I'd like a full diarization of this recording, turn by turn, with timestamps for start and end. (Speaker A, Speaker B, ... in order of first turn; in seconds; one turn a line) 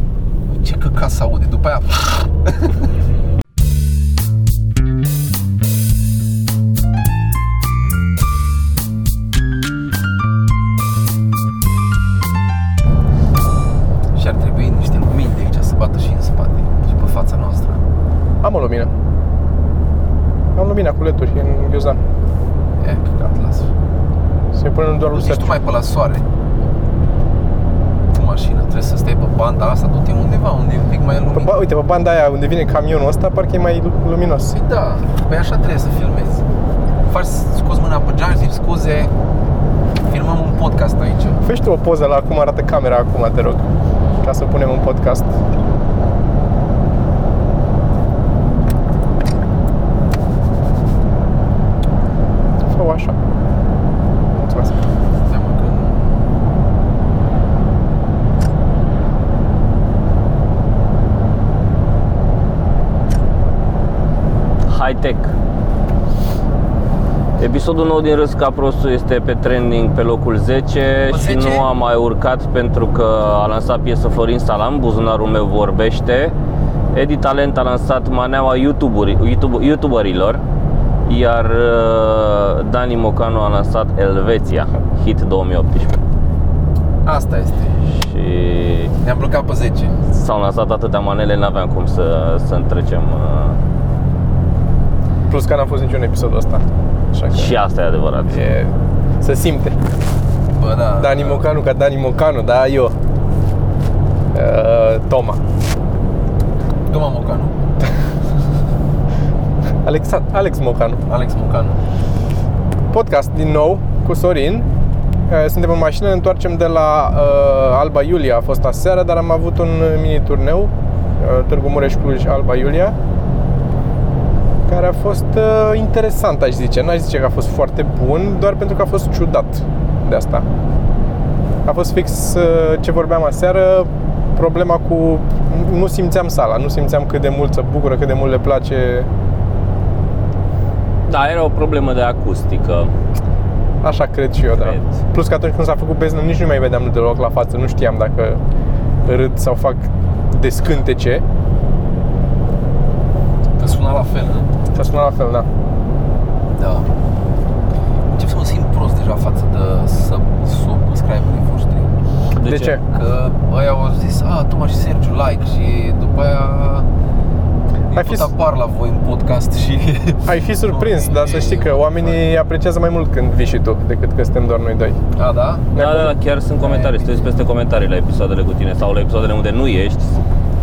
Speaker A: 0.5-2.5
Speaker A: 14.1-17.8
Speaker B: 18.4-18.9
Speaker B: 20.5-22.0
Speaker A: 22.8-23.7
Speaker B: 24.5-25.6
Speaker A: 25.1-26.2
Speaker A: 28.1-31.5
Speaker B: 31.3-34.5
Speaker A: 34.5-36.4
Speaker A: 37.1-39.1
Speaker A: 40.1-41.4
Speaker B: 41.4-43.7
Speaker B: 44.2-45.3
Speaker B: 52.7-53.2
Speaker B: 54.3-54.8
Speaker A: 55.3-56.1
Speaker C: 64.7-65.3
Speaker C: 67.4-76.3
Speaker A: 71.1-71.7
Speaker C: 76.9-80.4
Speaker C: 81.0-86.0
Speaker A: 87.0-87.8
Speaker C: 87.9-88.9
Speaker A: 89.0-90.0
Speaker C: 90.1-93.6
Speaker B: 95.3-97.5
Speaker C: 97.3-98.4
Speaker B: 98.3-99.8
Speaker A: 100.5-101.4
Speaker B: 101.0-103.0
Speaker B: 104.3-105.4
Speaker A: 106.9-107.5
Speaker B: 109.8-111.0
Speaker A: 111.1-111.8
Speaker B: 112.9-114.7
Speaker B: 115.3-122.9
Speaker B: 124.7-130.5
Speaker B: 131.7-139.1
Speaker C: 141.1-142.9
Speaker B: 143.8-148.4
Speaker C: 144.6-144.9
Speaker B: 149.1-151.2
Speaker A: 153.6-154.5
Speaker B: 154.7-155.5
Speaker A: 156.5-156.9
Speaker A: 158.1-161.9
Speaker C: 162.4-162.8
Speaker B: 162.4-162.8
Speaker A: 162.9-166.9
Speaker A: 167.9-172.2
Speaker B: 167.9-168.3
Speaker B: 170.3-175.0
Speaker A: 175.2-175.7
Speaker B: 175.8-176.1
Speaker C: 175.8-180.2
Speaker A: 176.6-177.3